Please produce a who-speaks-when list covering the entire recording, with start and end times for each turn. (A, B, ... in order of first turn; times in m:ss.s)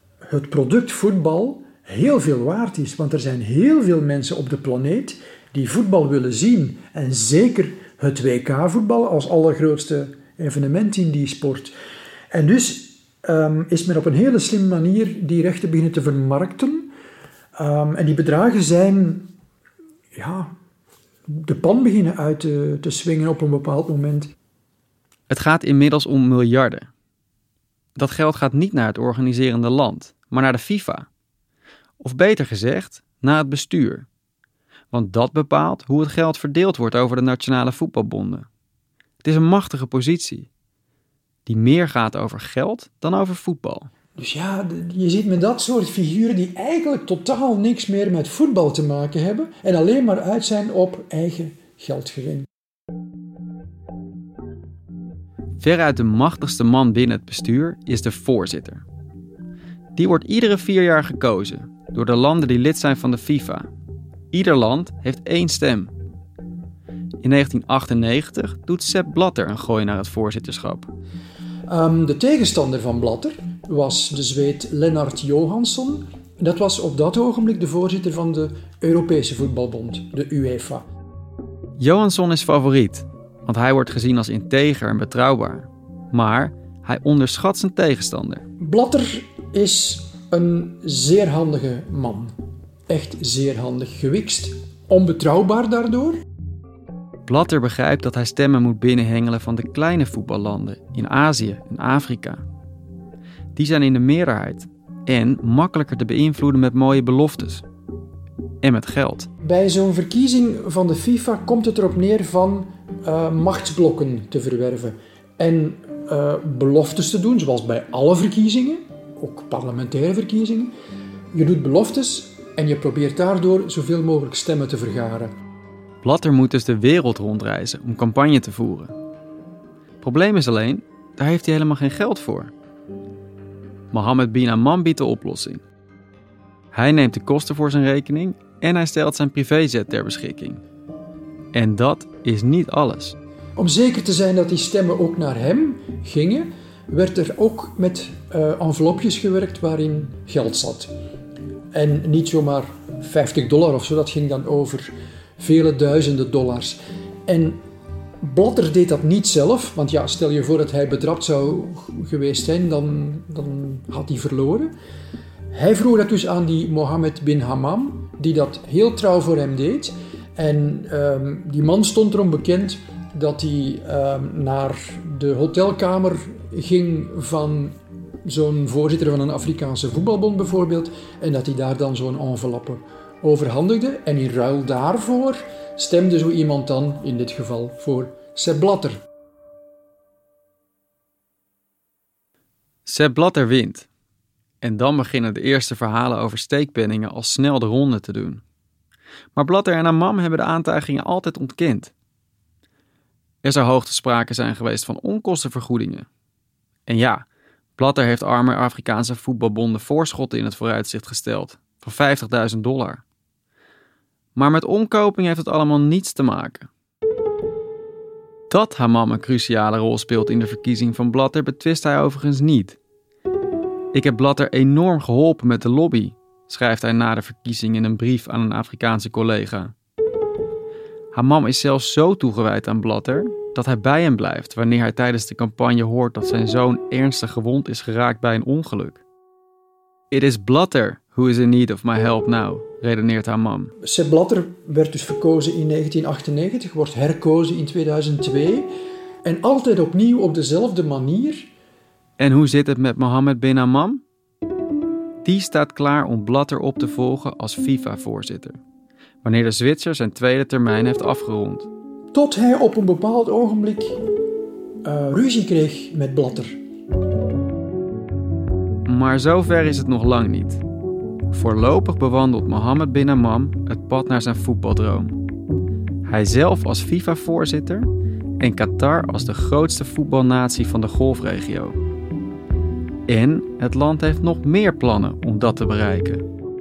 0:00.3-0:11.7 A
0:12.3-0:16.9 A
0:17.6-0:19.3 A
0:20.1-0:20.5 A
0:21.3-0:24.3 A
0:25.3-0:26.9 B
0:28.0-0:31.1 B
0:32.0-0:34.1 B
0:34.9-0:38.5 B
0:39.2-0:40.5 B
0:41.5-0:43.9 B
0:44.2-0:52.5 A
0:55.6-0:58.8 B
1:00.0-1:03.7 B
1:04.3-1:05.9 B
1:07.2-1:10.9 B
1:11.7-1:20.8 A
1:21.8-1:28.4 B
1:28.6-1:32.3 A
1:32.9-1:36.2 A
1:37.3-1:42.4 B
1:43.6-1:47.6 B
1:48.6-1:49.3 B
1:49.4-2:00.7 A
2:01.3-2:05.3 A
2:06.0-2:08.9 B
2:10.0-2:12.5 B
2:13.9-2:15.6 B
2:16.7-2:20.6 B
2:21.5-2:23.2 B
2:23.6-2:30.9 A
2:31.7-2:37.6 A
2:38.2-2:44.7 A
2:45.5-3:09.0 A
3:12.9-3:13.9 B
3:14.6-3:18.4 B
3:19.4-3:21.9 B
3:23.4-3:26.1 B
3:26.9-3:27.3 B
3:27.8-3:33.0 B
3:34.4-3:36.7 B
3:38.5-3:42.8 B
3:43.9-3:49.7 B
3:51.1-3:59.0 B
4:00.1-4:03.7 B
4:03.8-4:08.7 A
4:09.2-4:11.5 A
4:12.2-4:14.0 B
4:15.2-4:18.6 B
4:19.2-4:21.7 B
4:22.1-4:24.0 A
4:24.8-4:26.6 A
4:28.9-4:30.6 B
4:31.3-4:35.2 B
4:36.1-4:37.9 B
4:38.4-4:41.8 B
4:43.1-4:46.2 B